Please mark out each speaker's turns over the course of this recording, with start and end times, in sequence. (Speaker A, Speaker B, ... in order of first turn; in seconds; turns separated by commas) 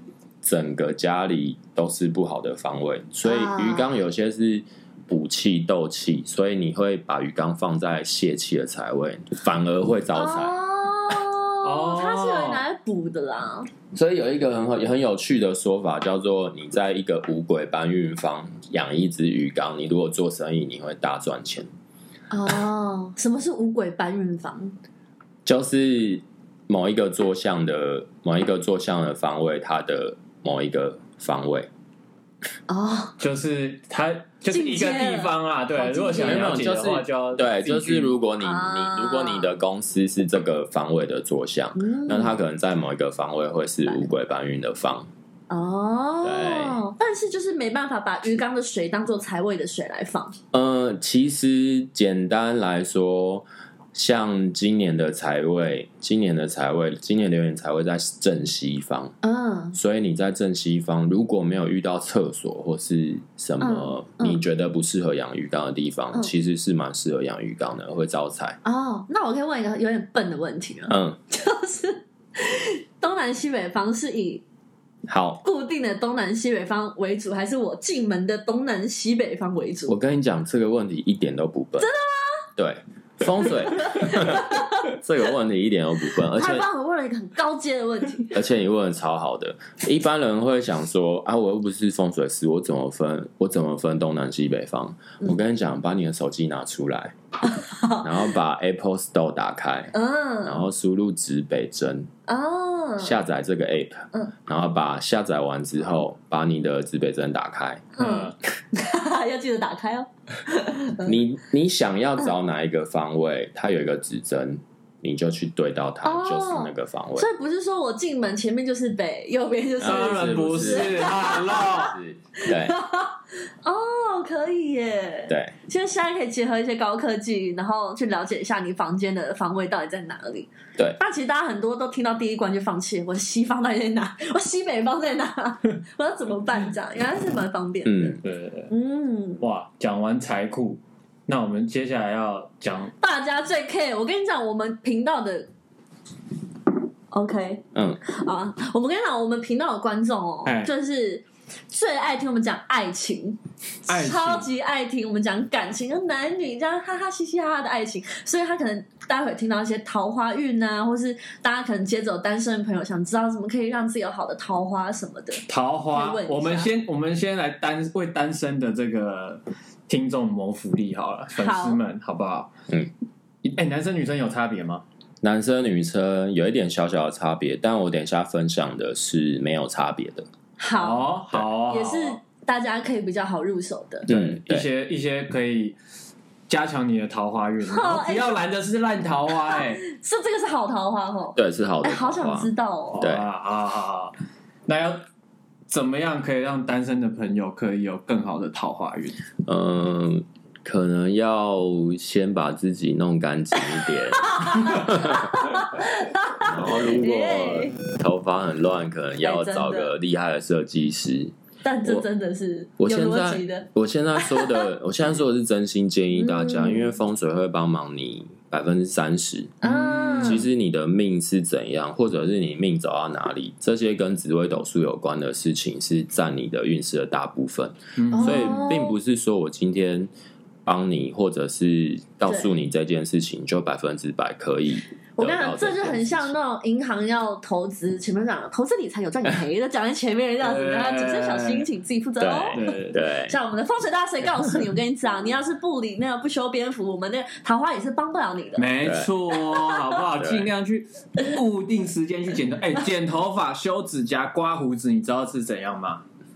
Speaker A: 0.4-10.5, Speaker B: 3.2-3.9, Speaker B: 10.1-13.7, Speaker C: 11.6-12.6, Speaker A: 13.9-21.7, Speaker B: 22.3-24.7, Speaker A: 25.4-31.7, Speaker B: 32.7-33.1, Speaker C: 33.2-38.1, Speaker B: 34.5-36.6, Speaker A: 36.2-45.1, Speaker B: 38.4-39.6, Speaker B: 41.7-42.4, Speaker B: 45.5-50.3, Speaker A: 46.2-46.8, Speaker A: 50.5-59.1, Speaker B: 59.2-59.8, Speaker A: 59.7-68.6, Speaker B: 63.6-64.4, Speaker B: 68.6-74.4, Speaker A: 70.9-71.2, Speaker A: 75.1-75.4, Speaker B: 75.4-80.0, Speaker A: 79.9-81.9, Speaker B: 81.8-82.5, Speaker A: 82.5-86.7, Speaker B: 83.4-84.9, Speaker B: 86.3-88.4, Speaker A: 88.3-97.1, Speaker B: 97.5-98.1, Speaker A: 98.0-102.1, Speaker B: 99.9-100.7, Speaker B: 102.3-103.2, Speaker A: 103.0-107.9, Speaker B: 108.0-111.1, Speaker C: 108.0-108.3, Speaker A: 111.0-117.3, Speaker B: 116.0-138.2, Speaker A: 119.8-122.8, Speaker C: 119.8-122.0, Speaker A: 137.8-138.2, Speaker C: 138.2-138.7, Speaker B: 138.7-139.4, Speaker C: 139.4-142.9, Speaker B: 143.0-145.5, Speaker B: 147.1-166.7, Speaker A: 147.7-148.0, Speaker C: 150.4-150.7, Speaker C: 153.9-154.5, Speaker C: 165.5-172.5, Speaker B: 171.4-171.8, Speaker C: 173.4-174.8, Speaker A: 175.2-180.2, Speaker B: 180.6-184.1, Speaker C: 180.7-182.2, Speaker A: 184.1-184.7, Speaker C: 184.1-185.8, Speaker C: 186.5-189.8, Speaker B: 187.7-188.4, Speaker B: 189.5-193.1, Speaker A: 191.3-193.2, Speaker C: 192.9-194.1, Speaker C: 194.7-195.0, Speaker C: 195.7-199.2, Speaker A: 199.4-205.4, Speaker B: 204.1-207.8, Speaker A: 206.4-211.3, Speaker B: 209.2-209.9, Speaker B: 211.6-214.7, Speaker A: 212.8-219.5, Speaker B: 216.1-216.9, Speaker B: 219.6-220.4, Speaker C: 219.6-220.4, Speaker A: 220.2-230.1, Speaker C: 228.0-228.6, Speaker B: 228.1-228.9, Speaker A: 230.6-236.3, Speaker B: 235.2-242.7, Speaker C: 240.4-241.7, Speaker A: 242.2-243.3, Speaker C: 242.5-243.0, Speaker B: 243.3-248.8, Speaker C: 248.6-256.0, Speaker A: 248.8-249.1, Speaker B: 249.3-250.0, Speaker A: 250.2-250.5